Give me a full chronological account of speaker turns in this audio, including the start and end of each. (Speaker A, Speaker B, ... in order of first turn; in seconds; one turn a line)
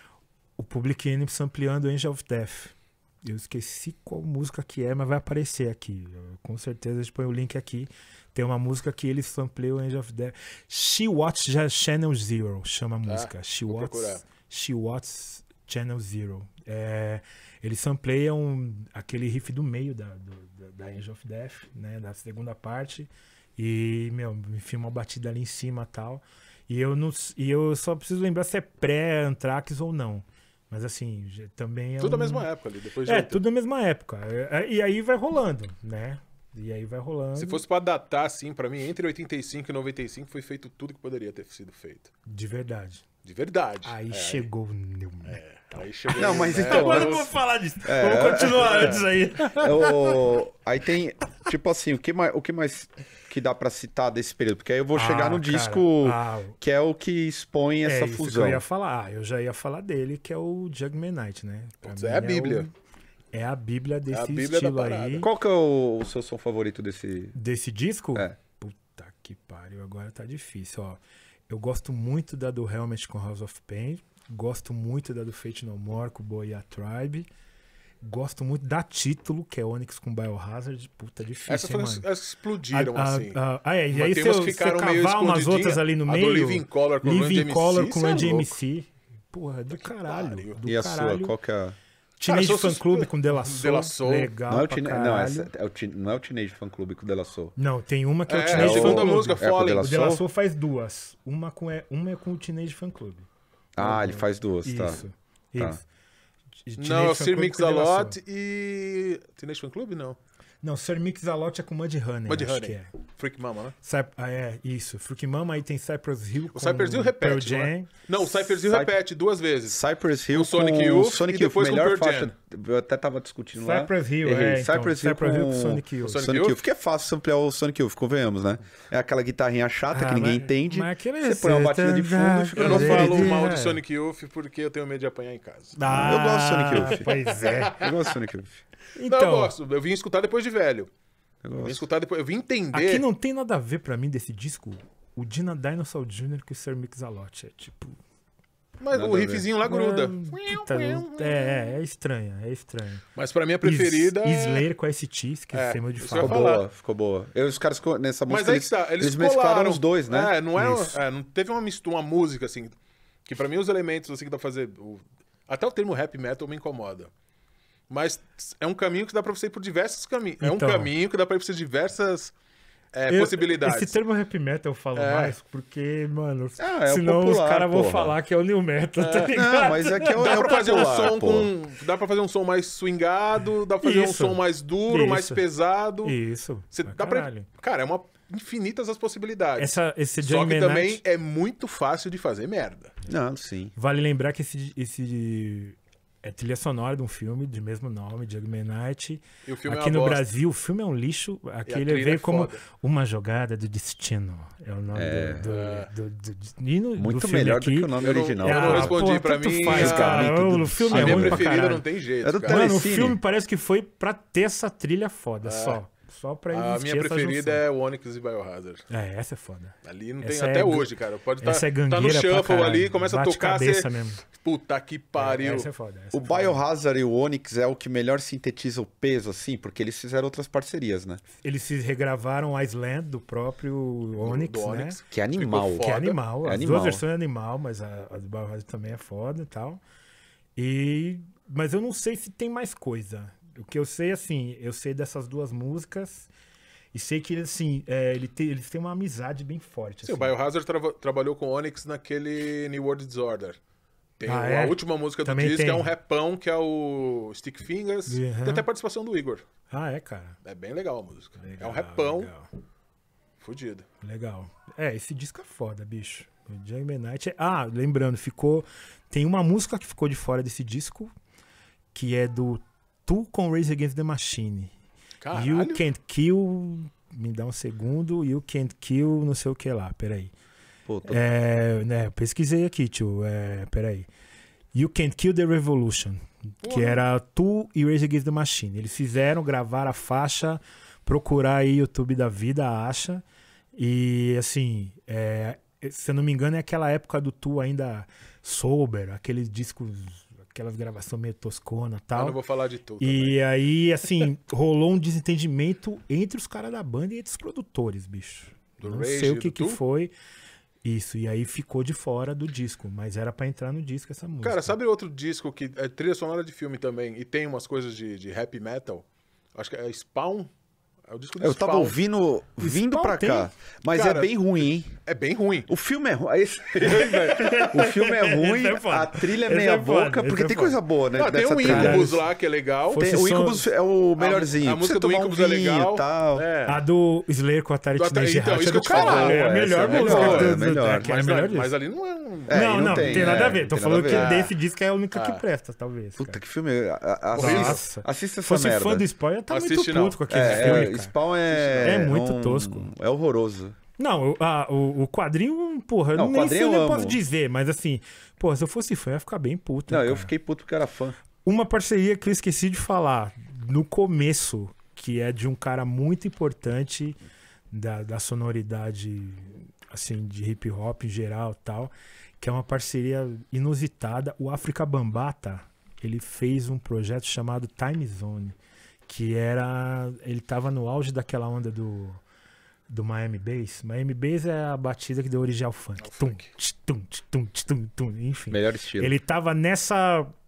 Speaker A: 0.6-32.5
Speaker B: 13.1-14.2
Speaker B: 32.0-33.4
Speaker A: 33.0-37.6
Speaker B: 37.4-42.1
Speaker A: 42.3-43.0
Speaker B: 43.2-44.5
Speaker A: 43.8-50.2
Speaker B: 45.3-47.3
Speaker C: 46.1-47.2
Speaker C: 47.8-58.6
Speaker B: 48.5-49.0
Speaker A: 54.9-56.6
Speaker A: 57.8-62.7
Speaker B: 61.8-62.7
Speaker A: 63.3-65.3
Speaker B: 64.1-65.2
Speaker C: 65.2-67.3
Speaker A: 67.3-77.3
Speaker A: 78.0-82.0
Speaker B: 81.5-83.4
Speaker A: 82.7-91.3
Speaker B: 83.9-88.5
Speaker B: 89.7-90.6
Speaker C: 90.6-91.8
Speaker A: 92.2-95.5
Speaker B: 92.2-94.3
Speaker C: 94.5-97.5
Speaker A: 97.6-103.3
Speaker B: 98.3-99.9
Speaker C: 98.5-100.2
Speaker C: 103.8-105.0
Speaker A: 103.8-105.8
Speaker A: 106.7-108.2
Speaker B: 106.8-110.2
Speaker A: 110.6-112.9
Speaker B: 112.3-113.8
Speaker A: 113.8-117.9
Speaker B: 116.5-122.3
Speaker C: 118.7-118.9
Speaker C: 119.7-133.4
Speaker A: 123.5-126.2
Speaker B: 126.0-126.6
Speaker A: 129.9-133.8
Speaker B: 132.6-135.8
Speaker A: 135.8-137.8
Speaker C: 135.9-137.1
Speaker B: 136.8-138.0
Speaker C: 137.7-138.6
Speaker A: 138.9-139.5
Speaker B: 139.1-140.9
Speaker C: 141.4-141.8
Speaker B: 141.6-143.0
Speaker A: 142.7-147.9
Speaker B: 148.8-151.7
Speaker C: 148.9-149.5
Speaker A: 149.6-153.0
Speaker B: 153.1-154.7
Speaker A: 153.6-156.5
Speaker B: 155.5-156.6
Speaker C: 156.1-160.4
Speaker B: 158.3-162.7
Speaker A: 160.6-160.9
Speaker B: 163.2-167.1
Speaker B: 167.9-172.3
Speaker A: 170.4-170.9
Speaker B: 172.9-174.0
Speaker A: 173.1-181.1
Speaker B: 174.9-175.3
Speaker C: 176.6-178.1
Speaker B: 179.0-179.4
Speaker C: 179.3-181.5
Speaker B: 180.1-186.2
Speaker A: 183.8-185.4
Speaker A: 186.0-187.5
Speaker B: 186.7-192.9
Speaker A: 189.6-191.0
Speaker C: 193.1-193.7
Speaker A: 193.8-211.8
Speaker B: 199.4-200.3
Speaker B: 201.7-202.6
Speaker C: 204.9-205.4
Speaker B: 205.4-205.9
Speaker C: 207.0-209.1
Speaker B: 208.0-210.3
Speaker C: 209.6-211.6
Speaker B: 210.9-212.7
Speaker C: 212.2-213.2
Speaker A: 212.4-217.6
Speaker B: 215.4-215.8
Speaker B: 216.5-218.9
Speaker A: 218.9-224.2
Speaker B: 219.8-225.7
Speaker A: 225.2-226.6
Speaker C: 226.1-231.2
Speaker A: 231.4-235.0
Speaker B: 234.2-236.2
Speaker C: 235.1-237.0
Speaker A: 235.8-239.8
Speaker A: 240.6-246.3
Speaker A: 246.9-250.3
Speaker B: 250.0-253.6
Speaker B: 254.2-259.4
Speaker A: 254.2-255.9
Speaker A: 258.1-258.6
Speaker A: 259.7-260.4
Speaker B: 260.4-262.3
Speaker A: 261.4-262.5
Speaker B: 263.4-263.9
Speaker A: 264.0-271.1
Speaker A: 271.9-274.7
Speaker B: 275.2-275.8
Speaker A: 275.3-280.3
Speaker C: 280.9-281.2
Speaker A: 281.1-284.1
Speaker A: 284.7-302.4
Speaker B: 286.6-287.0
Speaker B: 302.1-303.4
Speaker A: 303.0-310.1
Speaker B: 308.8-309.8
Speaker A: 310.8-314.8
Speaker B: 314.4-320.5
Speaker B: 321.1-322.0
Speaker C: 321.4-324.9
Speaker A: 322.6-323.5
Speaker B: 323.9-325.7
Speaker C: 325.7-332.1
Speaker A: 326.8-330.8
Speaker B: 331.1-333.1
Speaker A: 331.6-332.3
Speaker A: 332.9-333.6
Speaker C: 332.9-336.4
Speaker B: 334.2-336.8
Speaker A: 336.6-341.7
Speaker B: 338.0-344.5
Speaker C: 338.9-341.3
Speaker C: 342.5-344.4
Speaker A: 342.5-346.4
Speaker B: 345.1-345.4
Speaker C: 346.2-349.1
Speaker A: 347.3-351.1
Speaker B: 347.4-347.8
Speaker B: 349.5-350.9
Speaker C: 350.3-353.8
Speaker B: 351.5-352.0
Speaker A: 351.8-352.9
Speaker A: 354.0-360.3
Speaker C: 356.1-357.2
Speaker C: 359.9-361.2
Speaker A: 361.4-367.2
Speaker A: 367.7-378.6
Speaker A: 379.1-382.2
Speaker A: 382.9-390.3
Speaker B: 386.0-386.5
Speaker C: 388.5-389.1